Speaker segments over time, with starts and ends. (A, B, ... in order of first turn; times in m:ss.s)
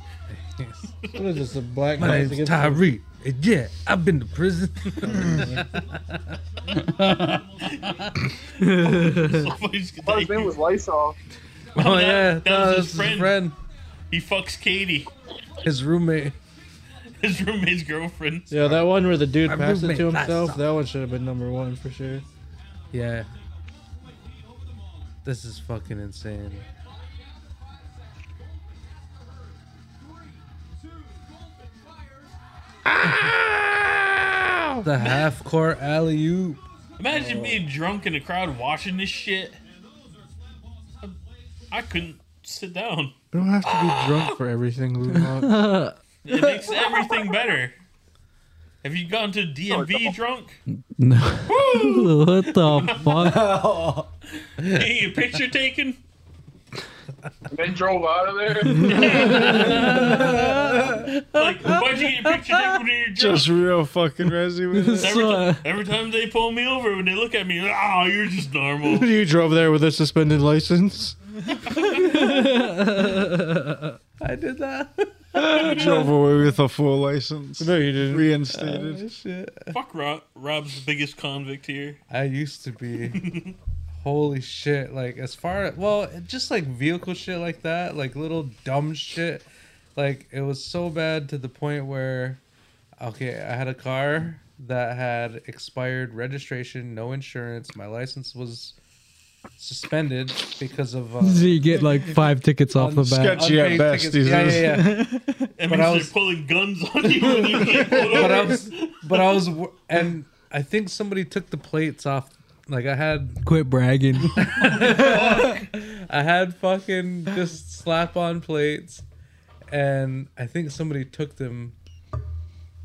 0:00.3-0:01.0 A
0:01.1-0:02.9 B
0:02.0-0:07.5 A
0:05.1-0:05.6 B
0:07.6-0:10.6 C
0:08.6-0:09.5 D
0:10.0-0:11.2 E
0:11.8-0:13.4 C
0:11.8-0:13.6 A
0:14.1-0:15.1 C
0:15.6-0:16.4 A
0:17.2-0:18.8 C
0:18.5-0:22.3 B
0:19.4-0:20.7 A
0:22.9-0:23.3 A
0:25.2-0:26.6 A
0:32.9-0:34.0 A
0:34.7-0:36.6 A
0:37.0-0:39.6 C
0:41.7-0:44.4 C
0:43.3-0:45.8 B
0:45.4-0:46.0 D
0:46.2-0:47.8 C
0:48.8-0:50.6 C
0:49.7-0:50.2 E
0:50.7-0:53.6 D
0:51.5-0:53.4 C
0:53.2-0:54.1 F
0:54.6-0:56.0 C
0:57.5-0:58.9 E
0:58.6-0:59.3 D
0:58.7-1:00.6 C
0:58.9-1:02.8 A
1:00.4-1:01.0 F
1:01.2-1:03.6 C
1:03.2-1:05.2 F
1:04.7-1:05.6 D
1:05.0-1:09.1 C
1:08.8-1:11.2 B
1:12.1-1:13.3 A
1:12.1-1:13.5 D
1:14.2-1:16.1 A
1:15.4-1:16.1 C
1:15.6-1:19.1 F
1:17.6-1:18.3 B
1:18.5-1:19.8 A
1:19.7-1:22.0 C
1:22.1-1:23.3 A
1:23.0-1:23.6 C
1:24.0-1:32.4 A
1:33.0-1:38.8 A
1:39.6-1:42.0 A
1:41.2-1:43.5 D
1:42.7-1:45.0 A
1:43.0-1:45.5 F
1:45.6-1:49.5 C
1:45.7-1:46.1 A
1:47.2-1:53.4 A
1:53.4-1:54.4 D
1:54.4-1:59.0 A
1:54.4-1:55.6 C
1:59.7-2:01.8 A